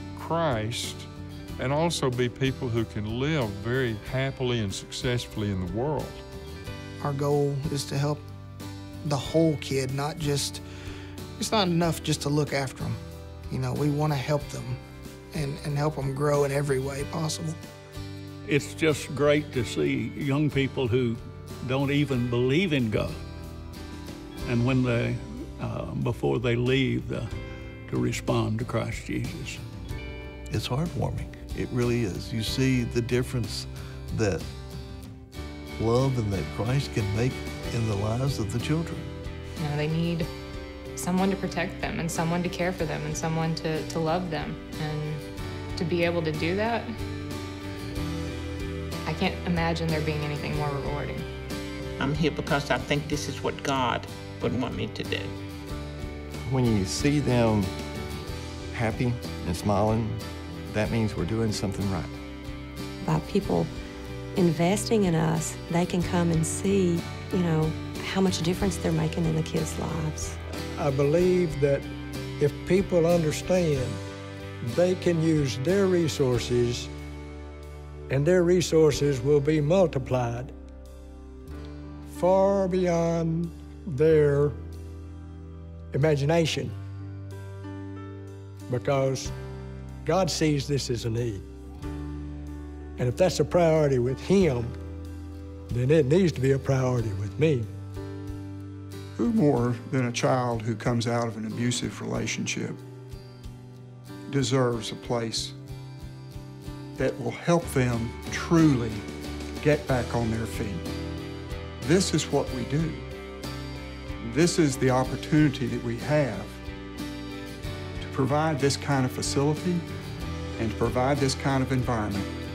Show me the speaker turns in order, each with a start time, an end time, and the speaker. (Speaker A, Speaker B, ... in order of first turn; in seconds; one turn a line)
Speaker A: 0.1-6.2
Speaker B: 7.0-8.2
Speaker B: 9.0-10.6
Speaker B: 11.4-13.0
Speaker B: 13.5-14.8
Speaker B: 15.3-17.6
Speaker C: 18.5-23.2
Speaker C: 24.5-27.3
Speaker C: 27.9-29.6
Speaker D: 30.5-34.5
Speaker D: 35.8-39.1
Speaker E: 39.6-40.3
Speaker E: 41.0-45.2
Speaker E: 45.8-46.9
Speaker E: 49.0-51.2
Speaker F: 52.0-55.3
Speaker G: 56.5-57.7
Speaker G: 58.7-62.1
Speaker H: 63.0-63.7
Speaker H: 64.3-70.3
Speaker I: 70.8-71.9
Speaker I: 72.4-74.0
Speaker I: 74.6-76.9
Speaker I: 78.1-80.5
Speaker I: 82.0-84.6
Speaker I: 85.9-86.7
Speaker I: 88.7-89.3
Speaker I: 90.0-91.4
Speaker I: 93.0-94.8
Speaker I: 95.7-97.7
Speaker J: 99.2-102.8
Speaker J: 104.3-105.5
Speaker J: 107.0-109.0
Speaker J: 109.6-110.9
Speaker J: 111.8-113.1
Speaker J: 114.2-116.6
Speaker J: 118.0-119.8
Speaker J: 120.6-122.3